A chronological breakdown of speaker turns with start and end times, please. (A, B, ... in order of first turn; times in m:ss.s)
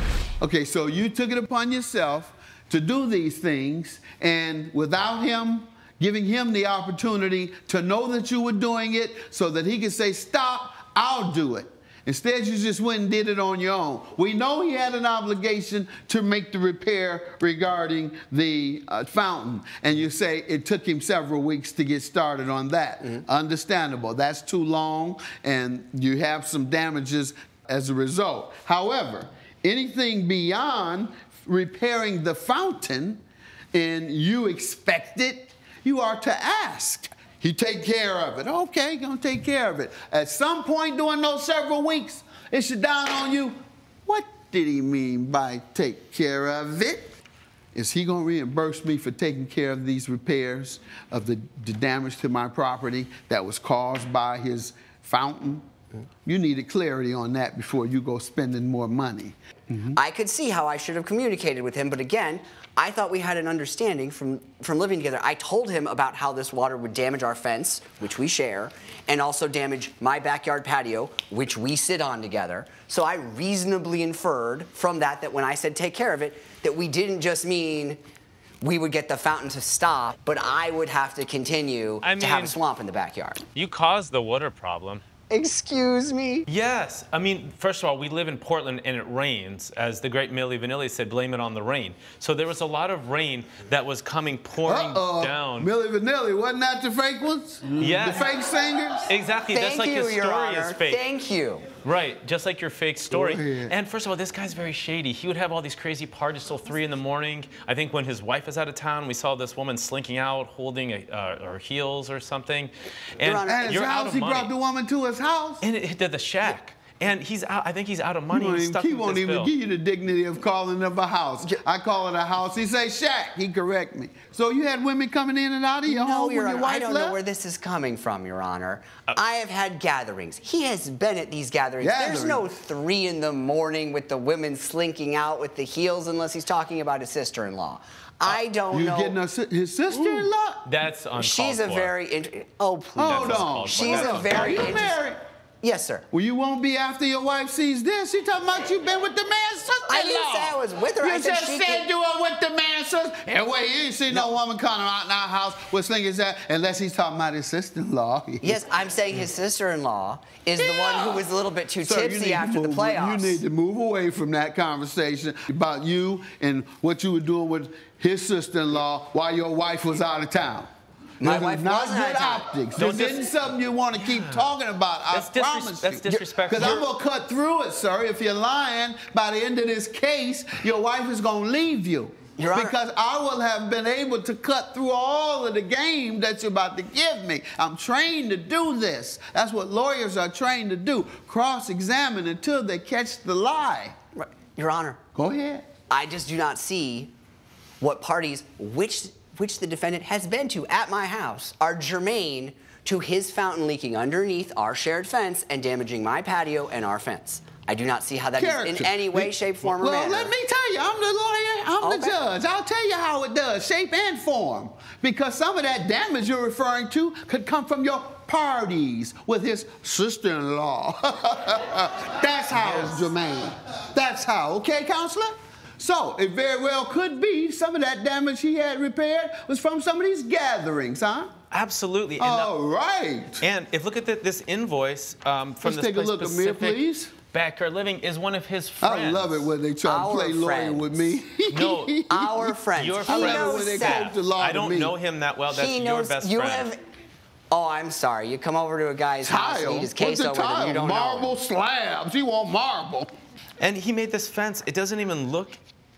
0:00.4-0:33.2 A
0:33.7-0:47.1 A
0:47.7-0:55.6 A
0:56.2-0:59.9 A
0:59.9-1:18.0 B
1:18.6-1:23.4 B
1:22.0-1:22.5 C
1:23.5-1:25.0 C
1:25.3-1:26.4 B
1:26.5-1:35.7 C
1:34.6-1:39.0 A
1:37.8-1:38.3 C
1:39.1-1:41.0 C
1:39.5-1:41.7 B
1:41.8-1:54.5 C
1:43.1-1:43.7 A
1:53.2-1:53.8 B
1:53.4-1:55.6 A
1:55.6-1:59.5 C
1:58.3-2:07.2 A
2:05.8-2:19.2 B
2:11.8-2:12.5 A
2:18.3-2:20.6 A
2:19.9-2:20.3 B
2:20.6-2:21.9 C
2:21.2-2:25.0 B
2:23.0-2:25.2 A
2:23.0-2:24.7 C
2:25.6-2:26.0 B
2:26.1-2:38.6 A
2:29.9-2:31.9 B
2:38.4-2:43.4 B
2:40.6-2:41.3 A
2:41.8-2:50.7 A
2:51.2-2:52.5 B
2:51.2-3:13.9 A
2:52.7-2:54.6 C
2:55.1-2:56.8 C
2:56.1-2:56.8 B
3:02.4-3:02.7 B
3:14.2-3:15.0 B
3:15.1-3:15.6 A
3:15.9-3:17.1 B
3:17.8-3:30.3 B
3:28.4-3:51.3 A
3:31.8-3:32.1 B
3:42.5-3:43.1 C
3:51.5-3:52.6 C
3:52.2-3:53.4 A
3:53.4-3:56.8 C
3:55.6-3:57.1 A
3:57.3-3:59.5 C
3:58.8-4:04.9 A
3:59.8-4:01.2 B
4:01.5-4:02.0 C
4:02.1-4:04.1 B
4:02.8-4:06.7 C
4:05.5-4:06.8 B
4:07.5-4:11.4 B
4:09.2-4:13.1 A
4:13.6-4:15.6 C